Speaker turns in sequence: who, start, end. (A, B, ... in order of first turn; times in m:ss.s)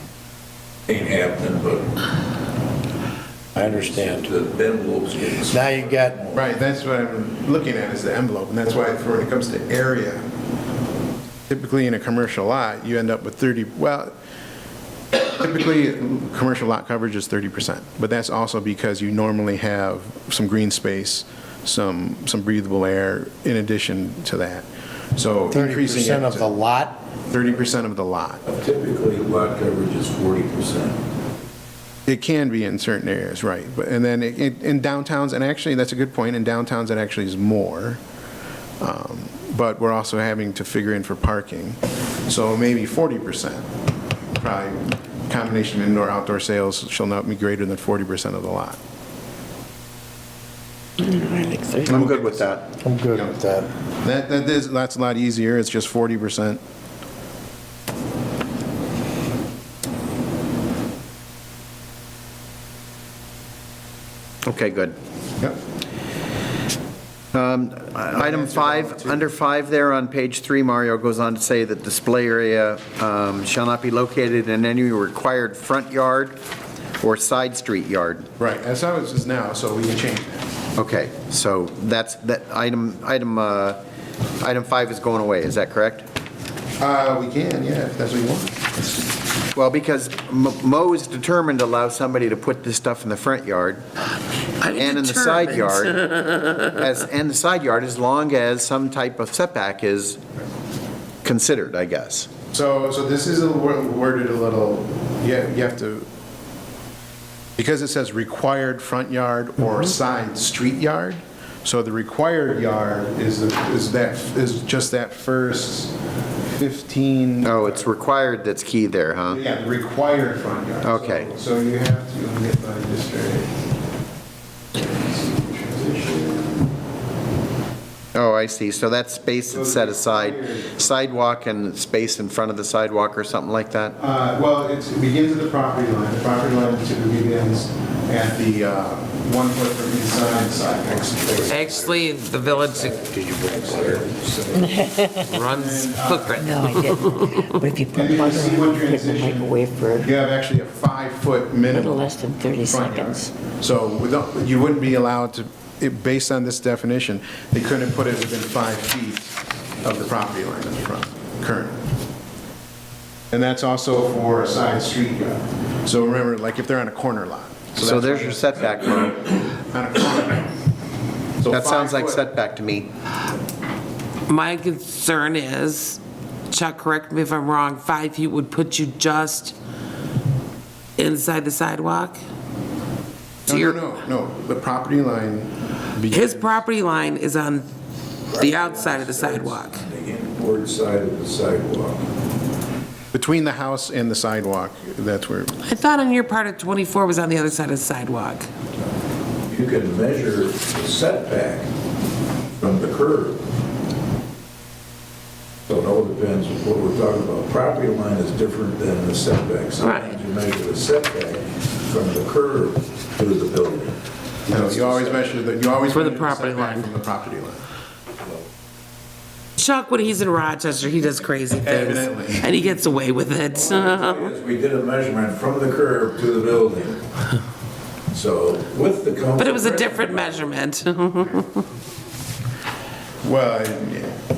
0:00.9-0:02.0 A
0:03.6-0:04.3 B
0:03.6-0:06.5 A
0:05.5-0:06.2 B
0:06.3-0:10.2 C
0:11.5-0:14.1 C
0:15.3-0:26.6 C
0:25.5-0:27.0 B
0:27.3-0:28.4 C
0:28.5-0:31.0 A
0:32.1-0:38.0 C
0:38.8-0:43.6 C
0:44.4-0:48.8 C
0:51.0-0:52.0 D
0:51.9-0:52.5 C
0:51.9-0:52.7 E
0:52.8-0:53.7 B
0:53.1-0:53.4 C
0:54.0-0:56.6 C
1:04.4-1:05.0 E
1:07.3-1:16.4 E
1:08.1-1:09.2 C
1:17.0-1:18.3 E
1:18.4-1:20.5 C
1:20.8-1:23.8 E
1:24.4-1:26.0 E
1:26.8-1:28.6 C
1:29.5-1:33.8 E
1:34.6-1:36.7 F
1:34.7-1:36.0 E
1:36.7-1:40.2 E
1:41.2-1:42.3 E
1:42.5-1:46.1 C
1:47.6-1:55.9 C
1:56.5-1:57.9 C
1:57.4-1:59.4 E
1:59.3-2:03.5 C
2:00.8-2:01.3 E
2:04.7-2:06.7 C
2:08.1-2:14.0 E
2:09.5-2:11.1 C
2:14.0-2:21.6 C
2:20.9-2:25.1 A
2:21.5-2:23.1 F
2:23.1-2:24.0 B
2:24.6-2:25.2 D
2:25.2-2:27.6 F
2:25.4-2:26.5 C
2:26.3-2:30.1 D
2:27.9-2:32.1 C
2:31.7-2:33.3 D
2:32.6-2:41.8 C
2:43.3-2:48.7 C
2:47.8-2:49.4 E
2:49.6-2:50.4 C
2:51.4-2:52.2 C
2:51.5-2:52.9 E
2:54.3-2:56.0 F
2:56.5-2:59.6 F
3:01.0-3:02.2 F
3:03.5-3:06.6 C
3:03.5-3:03.8 F
3:06.1-3:07.7 F
3:08.3-3:12.1 A
3:08.3-3:09.8 F
3:13.1-3:15.5 C
3:15.6-3:18.5 F
3:19.5-3:21.7 A
3:22.6-3:23.4 A
3:25.7-3:34.0 A
3:29.8-3:30.1 F
3:34.5-3:35.3 A
3:34.5-3:37.7 C
3:35.9-3:36.9 F
3:39.6-3:44.3 F
3:41.6-3:42.5 C
3:43.5-3:47.0 A
3:48.1-3:50.5 A
3:49.4-3:51.6 F
3:53.2-3:54.2 C